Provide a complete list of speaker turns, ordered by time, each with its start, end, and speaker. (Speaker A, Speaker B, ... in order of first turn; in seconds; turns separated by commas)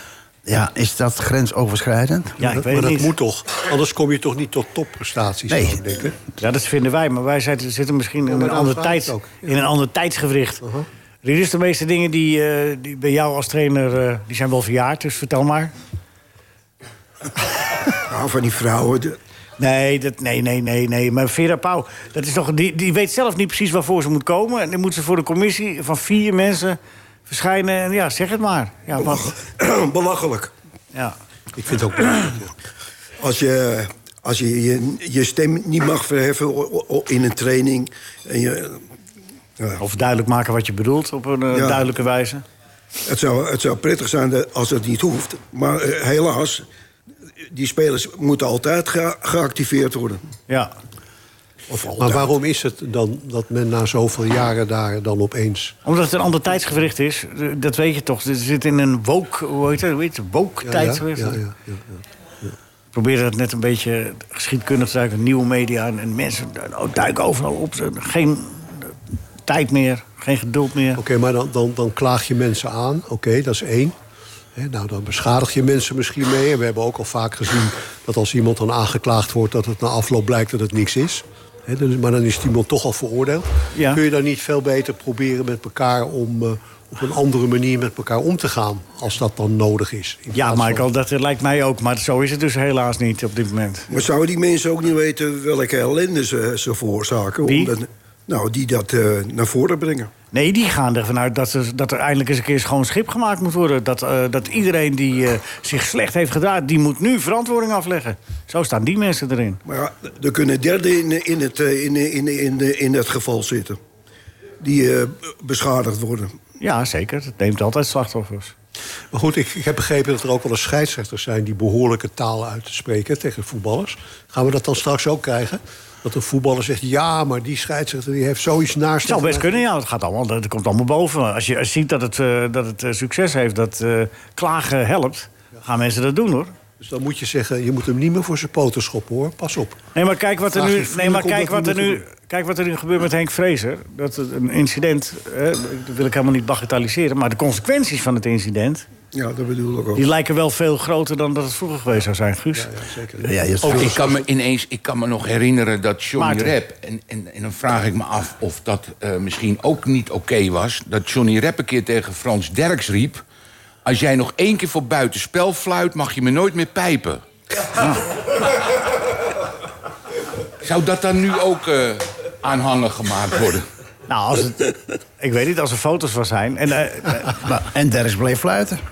Speaker A: 0.5-2.4, Speaker B: 2.4-3.1, Speaker C: 2.4-6.2, Speaker A: 5.5-5.8, Speaker B: 6.4-10.6, Speaker C: 8.3-9.5, Speaker C: 10.6-10.9, Speaker B: 11.2-15.7, Speaker D: 18.0-19.2, Speaker B: 19.6-29.3, Speaker D: 29.0-30.5, Speaker C: 31.6-32.5, Speaker D: 33.2-38.8, Speaker B: 39.8-42.4, Speaker D: 41.5-41.8, Speaker D: 43.1-46.6, Speaker D: 47.5-50.2, Speaker C: 51.7-55.8, Speaker D: 51.8-52.3, Speaker B: 55.9-61.4, Speaker C: 60.6-62.5, Speaker B: 62.9-69.0, Speaker B: 69.5-71.0, Speaker C: 71.0-74.0, Speaker C: 74.5-90.8, Speaker B: 83.8-84.0, Speaker B: 90.3-93.9, Speaker D: 93.9-100.1, Speaker B: 97.4-97.7, Speaker B: 100.3-109.6, Speaker D: 109.7-113.8, Speaker D: 114.6-116.3, Speaker B: 116.6-118.5, Speaker C: 119.1-129.6, Speaker B: 129.1-136.5, Speaker C: 136.8-139.8, Speaker B: 139.9-148.8, Speaker C: 140.5-142.0, Speaker D: 149.1-150.0, Speaker B: 150.0-152.7, Speaker C: 152.6-154.1, Speaker A: 153.2-154.0, Speaker E: 153.7-163.2, Speaker B: 156.2-156.5, Speaker E: 163.8-167.2, Speaker E: 170.6-173.7, Speaker B: 174.1-177.4, Speaker A: 177.3-178.8